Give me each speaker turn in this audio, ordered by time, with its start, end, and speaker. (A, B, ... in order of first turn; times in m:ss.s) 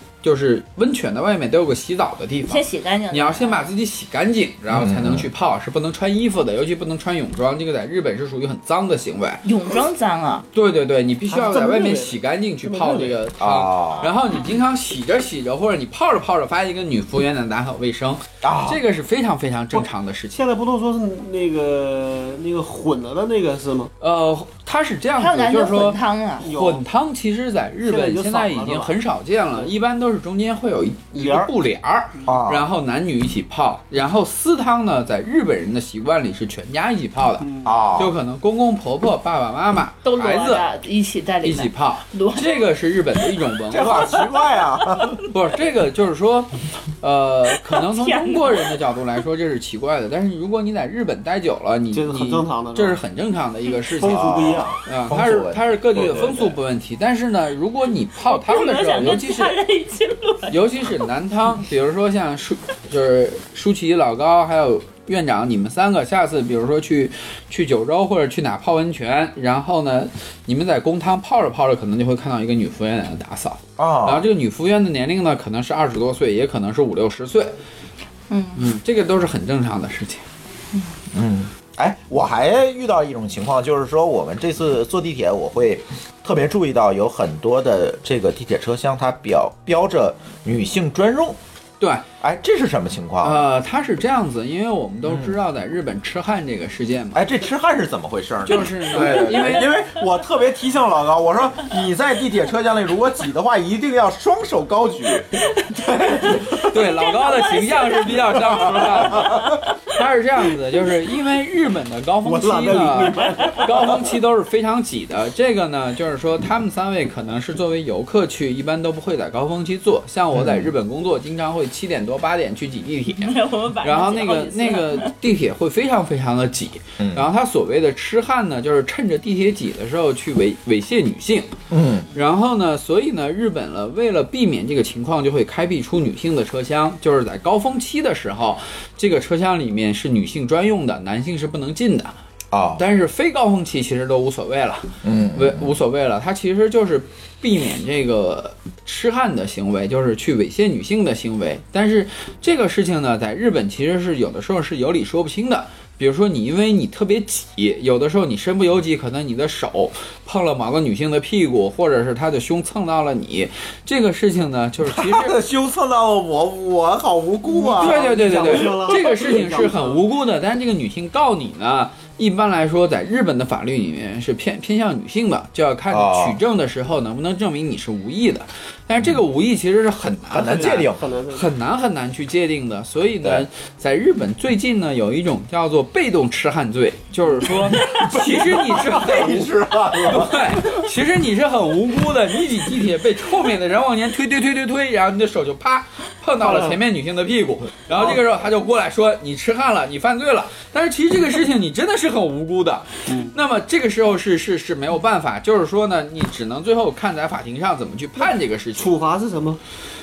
0:00.2-0:09.4 A
0:02.5-0:03.7 B
0:04.7-0:05.3 C
0:09.4-0:10.5 B
0:10.5-0:20.4 A
0:11.3-0:13.2 D
0:13.4-0:14.1 C
0:14.0-0:14.5 B
0:18.4-0:18.8 C
0:19.7-0:23.9 D
0:24.0-0:40.6 A
0:25.2-0:26.5 B
0:26.4-0:26.8 D
0:27.8-0:29.0 D
0:31.1-0:31.5 D
0:32.2-0:32.7 C
0:37.4-0:37.8 D
0:37.6-0:38.2 C
0:40.0-0:42.7 B
0:41.4-0:44.2 A
0:43.7-0:45.2 C
0:45.3-0:59.6 A
0:47.7-0:48.7 B
0:51.9-0:53.0 D
0:53.9-0:54.7 D
0:54.0-0:56.6 C
0:58.2-1:00.6 B
1:00.5-1:17.5 A
1:13.8-1:14.2 C
1:18.3-1:18.6 B
1:18.6-1:20.2 A
1:21.1-1:31.4 C
1:31.8-1:32.0 A
1:32.2-1:33.5 C
1:33.2-1:37.3 A
1:35.0-1:35.3 C
1:37.1-1:46.8 C
1:38.4-1:39.8 A
1:45.6-1:49.7 B
1:46.6-2:11.5 A
1:49.1-1:49.4 C
1:52.2-1:54.1 D
2:00.3-2:00.7 C
2:03.2-2:05.1 B
2:07.0-2:07.3 C
2:11.7-2:12.1 C
2:12.1-2:22.2 A
2:22.5-2:22.8 C
2:22.8-2:45.4 A
2:25.0-2:25.7 C
2:44.8-2:48.9 C
2:47.5-2:50.0 D
2:47.8-3:09.5 A
2:55.9-2:56.4 C
3:00.3-3:01.0 C
3:00.4-3:01.5 D
3:07.7-3:10.8 C
3:10.0-3:28.9 A
3:16.4-3:16.8 D
3:23.1-3:23.3 D
3:28.2-3:29.6 D